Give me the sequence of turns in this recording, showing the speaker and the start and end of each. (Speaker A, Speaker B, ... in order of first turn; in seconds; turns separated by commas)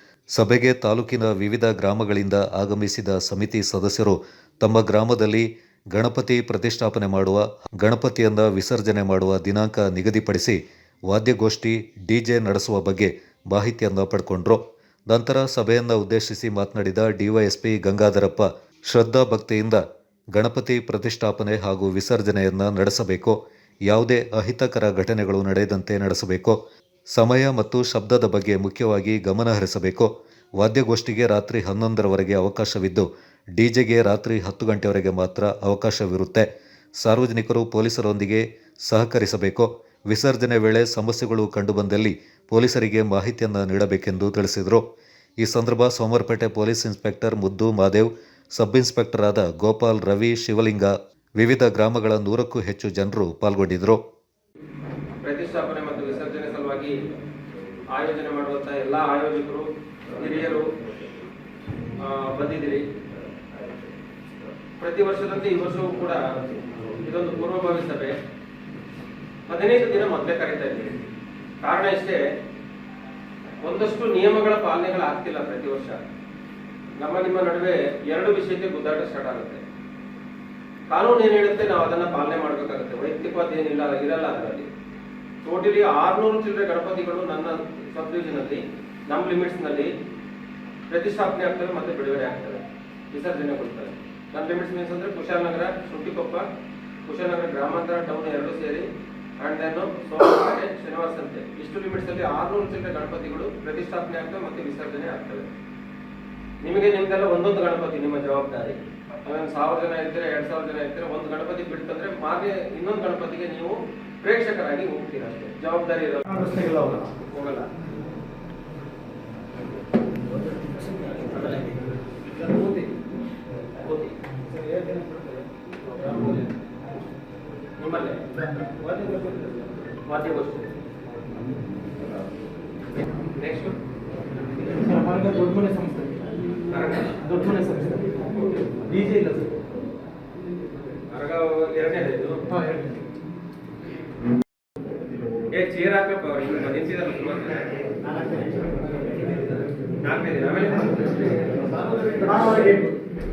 Speaker A: 0.3-19.8, Speaker A: 20.3-26.6, Speaker A: 27.1-36.5, Speaker A: 37.0-44.8, Speaker A: 45.4-54.0, Speaker B: 55.2-57.0, Speaker B: 57.9-60.7, Speaker B: 62.0-62.8, Speaker B: 64.8-66.3, Speaker B: 66.9-68.2, Speaker B: 69.5-71.0, Speaker B: 71.6-72.2, Speaker B: 73.6-76.0, Speaker B: 77.0-79.6, Speaker B: 80.9-84.7, Speaker B: 85.4-89.9, Speaker B: 90.9-96.4, Speaker B: 97.1-98.9, Speaker B: 99.4-105.5, Speaker B: 106.6-117.7, Speaker C: 116.4-117.1, Speaker C: 120.7-121.8, Speaker B: 122.4-122.9, Speaker B: 123.8-124.2, Speaker C: 124.7-125.0, Speaker C: 126.0-126.3, Speaker B: 127.8-128.2, Speaker C: 128.5-129.4, Speaker B: 130.1-130.7, Speaker B: 133.4-133.8, Speaker C: 134.6-136.2, Speaker B: 136.7-137.2, Speaker C: 137.2-138.3, Speaker C: 138.8-139.5, Speaker B: 141.1-142.4, Speaker C: 142.5-143.0, Speaker B: 145.5-147.7, Speaker B: 150.0-151.4, Speaker B: 152.0-152.6, Speaker C: 152.3-152.9